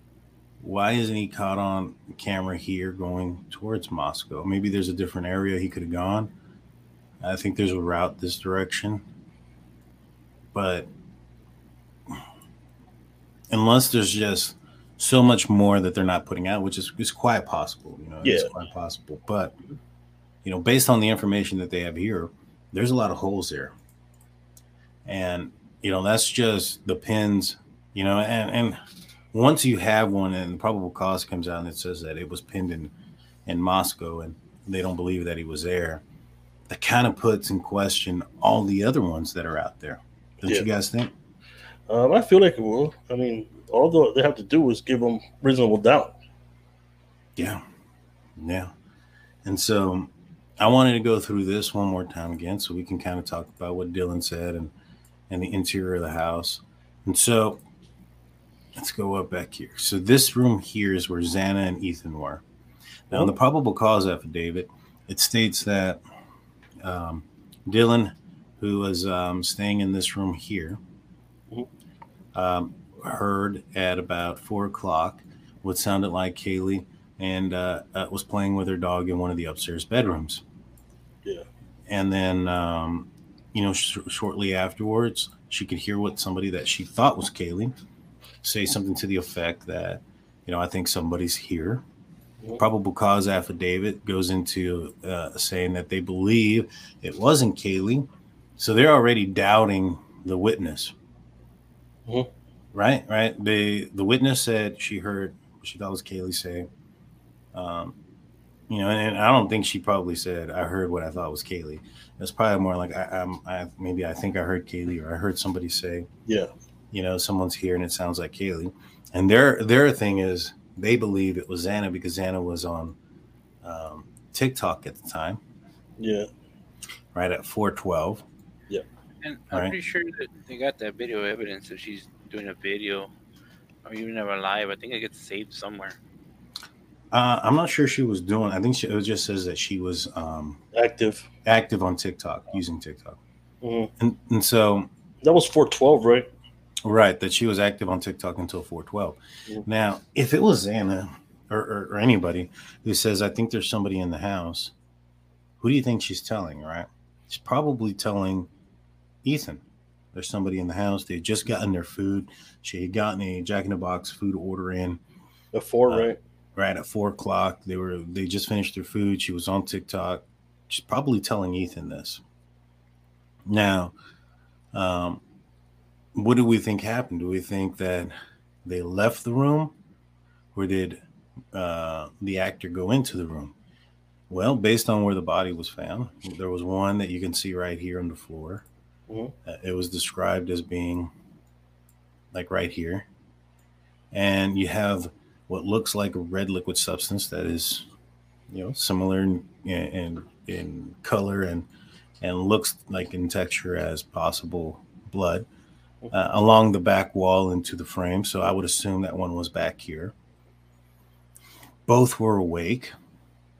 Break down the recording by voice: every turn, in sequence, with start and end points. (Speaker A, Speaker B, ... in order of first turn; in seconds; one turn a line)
Speaker A: 0.6-6.3
Speaker A: 7.2-9.0
Speaker A: 10.5-10.9
Speaker A: 13.5-19.6
Speaker B: 18.2-18.5
Speaker A: 20.4-23.7
Speaker A: 25.1-28.8
Speaker A: 29.3-32.9
Speaker A: 33.5-36.0
Speaker A: 36.7-41.1
Speaker B: 41.9-46.1
Speaker A: 47.4-47.6
Speaker A: 48.4-48.7
Speaker A: 49.5-54.7
Speaker A: 55.3-57.6
Speaker A: 58.8-62.4
Speaker A: 63.1-66.0
Speaker A: 66.8-70.8
Speaker A: 72.3-80.4
Speaker A: 81.9-87.8
Speaker A: 88.4-91.8
Speaker A: 92.6-98.1
Speaker A: 98.6-100.9
Speaker A: 102.7-106.7
Speaker A: 107.5-108.0
Speaker A: 108.7-116.1
Speaker A: 116.9-123.0
Speaker A: 123.6-125.4
Speaker B: 126.0-126.3
Speaker A: 127.1-128.2
Speaker C: 129.2-133.1
Speaker C: 133.8-136.0
Speaker A: 137.1-140.6
Speaker B: 140.7-141.3
Speaker A: 141.4-143.2
Speaker B: 143.6-143.9
Speaker A: 144.0-144.9
Speaker B: 145.2-146.3
Speaker A: 146.8-154.7
Speaker A: 155.6-158.5
Speaker A: 159.2-165.0
Speaker B: 165.5-166.2
Speaker A: 165.9-172.2
Speaker A: 173.5-173.9
Speaker A: 174.7-175.2
Speaker A: 176.1-178.1
Speaker A: 178.6-179.7
Speaker A: 180.6-181.0
Speaker A: 181.5-183.6
Speaker A: 184.3-188.6
Speaker B: 189.1-189.3
Speaker A: 189.5-191.1
Speaker A: 192.3-193.1
Speaker A: 194.1-197.9
Speaker A: 198.5-201.7
Speaker A: 202.2-205.5
Speaker A: 206.1-210.1
Speaker A: 211.9-212.9